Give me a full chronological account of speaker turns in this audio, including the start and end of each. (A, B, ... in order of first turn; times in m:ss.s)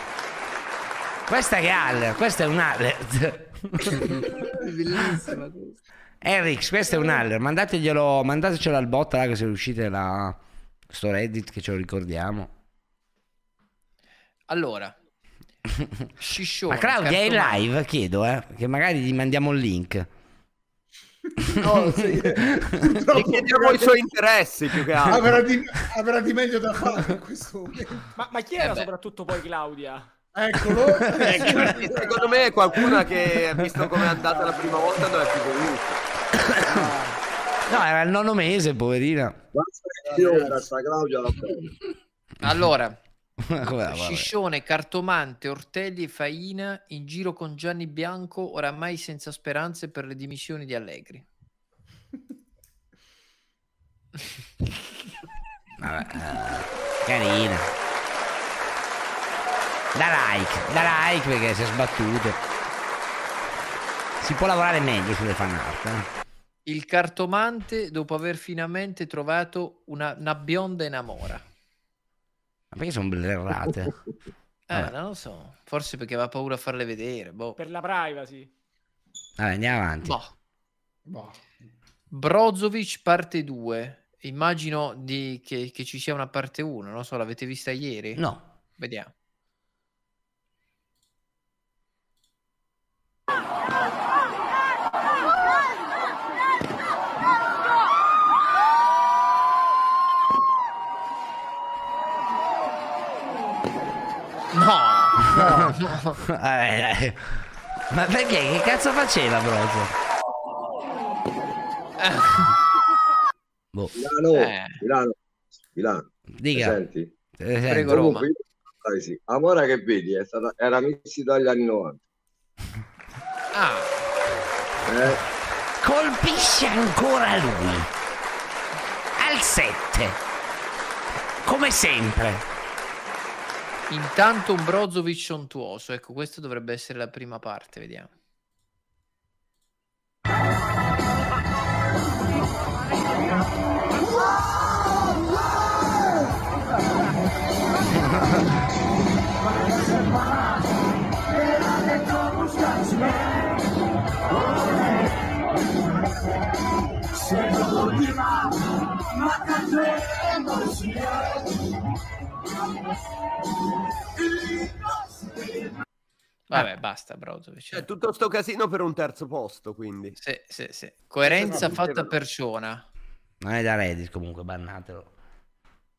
0:01.3-0:04.0 A
0:06.2-0:10.4 A
0:10.9-0:12.5 A
0:14.5-0:14.9 B
0:16.2-0:17.6 B
0:16.7-0:20.1 A
0:21.4-0:23.9 C
0:23.1-0:25.4 D
0:25.1-0:28.0 C
0:28.2-0:30.1 E
0:28.6-0:28.9 B
0:30.3-0:32.2 C
0:31.3-0:36.0 D
0:34.2-0:35.0 C
0:36.6-0:37.2 C
0:37.7-0:39.4 A
0:39.5-0:41.7 F
0:40.1-0:40.6 C
0:42.4-0:43.0 B
0:43.5-0:44.3 A
0:43.8-0:51.2 B
0:55.8-0:57.7 A
0:59.9-1:02.4 A
1:04.2-1:06.0 A
1:06.6-1:11.4 B
1:12.7-1:13.9 A
1:14.7-1:17.6 B
1:17.6-1:18.5 E
1:19.4-1:20.2 A
1:20.0-1:20.3 B
1:21.0-1:21.5 C
1:22.1-1:28.2 B
1:28.8-1:29.1 B
1:44.5-1:46.2 B
1:45.3-1:45.7 C
1:46.3-1:47.2 A
1:47.9-1:49.9 A
1:52.0-1:52.4 B
1:54.0-1:55.1 F
1:54.3-1:54.8 B
1:55.7-1:57.1 F
1:56.4-1:56.8 A
1:57.4-1:58.2 A
1:57.7-1:58.2 B
1:57.9-2:02.0 F
2:03.5-2:04.1 B
2:04.9-2:05.1 F
2:05.8-2:07.9 A
2:09.2-2:10.2 A
2:11.4-2:12.4 A
2:13.9-2:18.1 B
2:46.5-2:47.8 B
2:47.7-2:50.1 D
2:50.2-2:52.8 B
2:51.2-2:52.1 F
2:53.4-2:55.1 A